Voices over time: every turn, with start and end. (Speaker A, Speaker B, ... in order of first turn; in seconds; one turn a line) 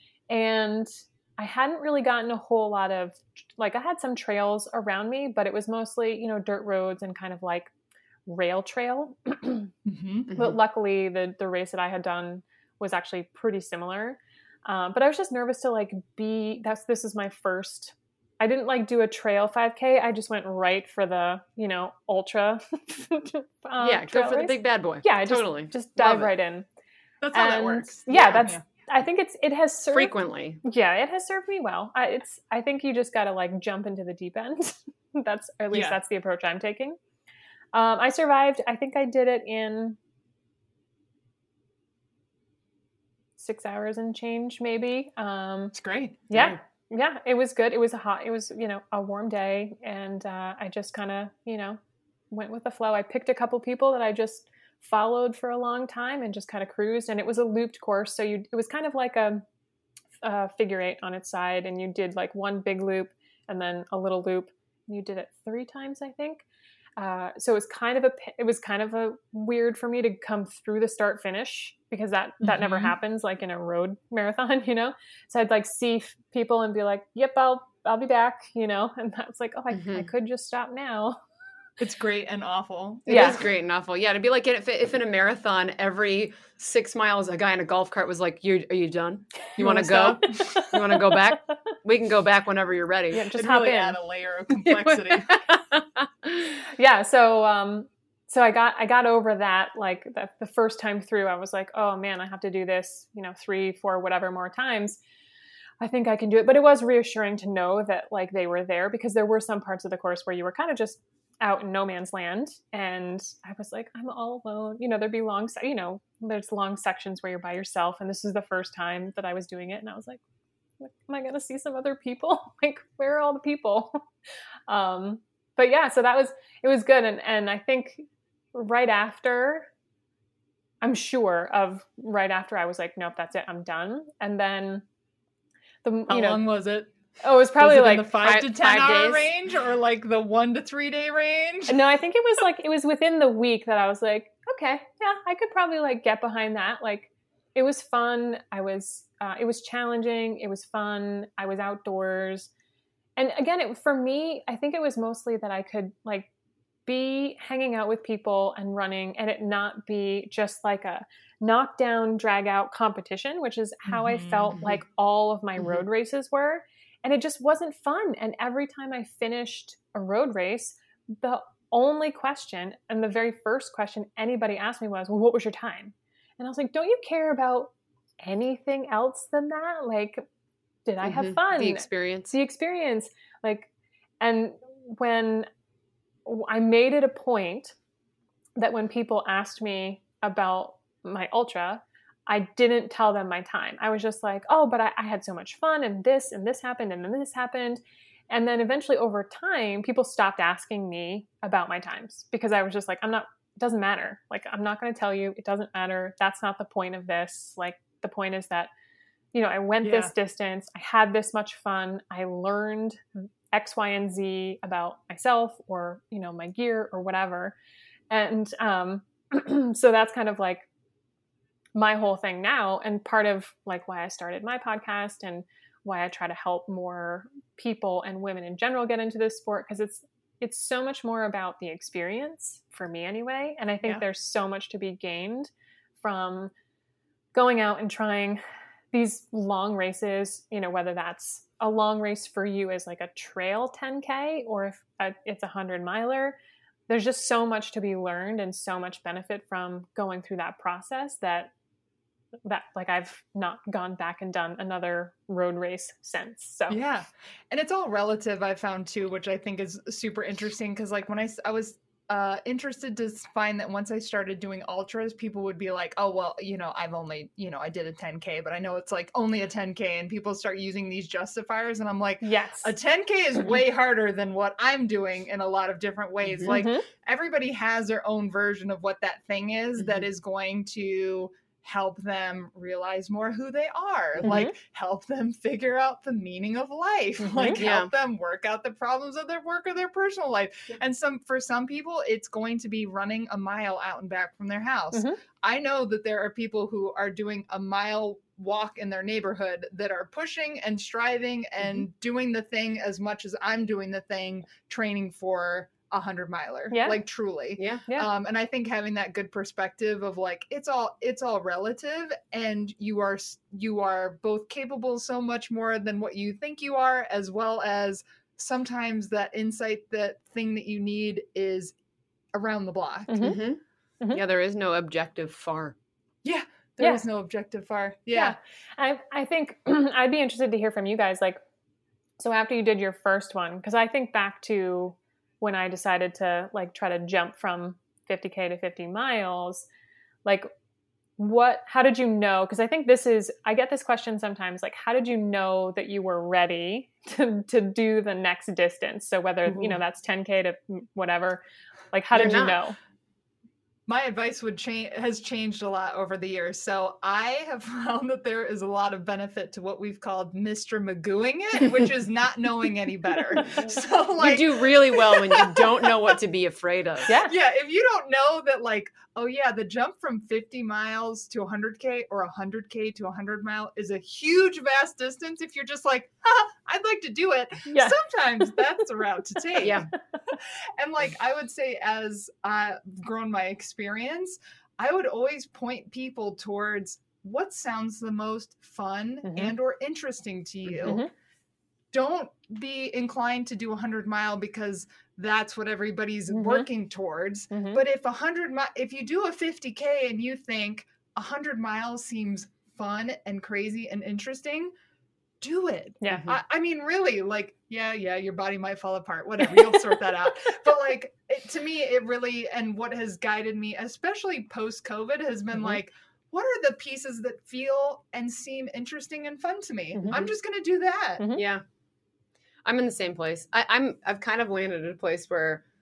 Speaker A: 0.3-7.7
Speaker A: 8.3-9.7
Speaker B: 9.9-10.3
Speaker C: 10.3-10.6
Speaker A: 10.3-26.7
Speaker C: 23.8-26.3
Speaker B: 27.2-28.6
Speaker A: 27.3-37.0
Speaker C: 29.9-30.6
Speaker B: 35.7-36.0
Speaker A: 37.7-40.0
Speaker A: 43.4-45.7
Speaker B: 45.8-46.2
Speaker A: 46.3-51.8
Speaker C: 46.3-46.6
Speaker A: 52.3-59.4
Speaker A: 60.2-66.5
Speaker A: 67.0-81.2
Speaker B: 72.4-72.9
Speaker C: 79.7-80.1
Speaker B: 81.8-83.4
Speaker C: 83.1-93.3
Speaker A: 83.1-83.4
Speaker A: 89.6-91.2
Speaker A: 93.1-94.0
Speaker B: 93.4-95.3
Speaker C: 94.6-96.6
Speaker A: 96.7-105.0
Speaker A: 105.8-120.2
Speaker A: 120.8-124.0
Speaker A: 124.7-129.7
Speaker A: 130.8-134.8
Speaker A: 135.8-136.4
Speaker B: 136.1-136.9
Speaker A: 137.2-138.2
Speaker B: 137.6-141.8
Speaker C: 138.2-139.3
Speaker A: 141.7-152.5
Speaker A: 153.2-156.3
Speaker A: 156.9-180.2
Speaker B: 163.9-164.7
Speaker C: 165.6-165.8
Speaker A: 180.9-183.7
Speaker C: 181.0-182.3
Speaker A: 184.2-185.5
Speaker A: 186.3-187.7
Speaker A: 188.6-208.7
Speaker A: 209.3-213.0
Speaker B: 209.8-210.1
Speaker A: 213.5-217.5
Speaker A: 218.1-220.7
Speaker A: 221.8-236.5
Speaker A: 237.3-246.4
Speaker A: 246.9-251.5
Speaker A: 252.5-256.8
Speaker B: 256.7-321.8
Speaker A: 272.2-272.7
Speaker C: 276.2-276.5
Speaker A: 276.5-276.9
Speaker C: 279.8-280.1
Speaker A: 284.2-284.6
Speaker A: 287.2-287.6
Speaker C: 287.6-287.9
Speaker A: 294.9-295.2
Speaker A: 306.7-307.0
Speaker C: 307.6-307.8
Speaker B: 322.3-323.1
Speaker A: 323.1-323.4
Speaker C: 323.2-325.8
Speaker B: 326.2-328.4
Speaker A: 328.1-331.4
Speaker A: 332.2-339.7
Speaker A: 341.2-352.8
Speaker C: 352.1-352.6
Speaker B: 353.9-366.0
Speaker C: 364.2-367.1
Speaker A: 367.1-367.3
Speaker B: 367.3-379.9
Speaker A: 377.7-377.9
Speaker C: 379.6-379.9
Speaker B: 380.8-391.1
Speaker A: 389.3-389.5
Speaker A: 390.9-391.1
Speaker B: 391.9-404.7
Speaker A: 396.3-396.7
Speaker A: 397.5-397.8
Speaker B: 405.4-421.3
Speaker A: 406.0-406.3
Speaker C: 406.1-406.4
Speaker A: 421.2-421.4
Speaker C: 421.4-421.6
Speaker C: 422.6-425.6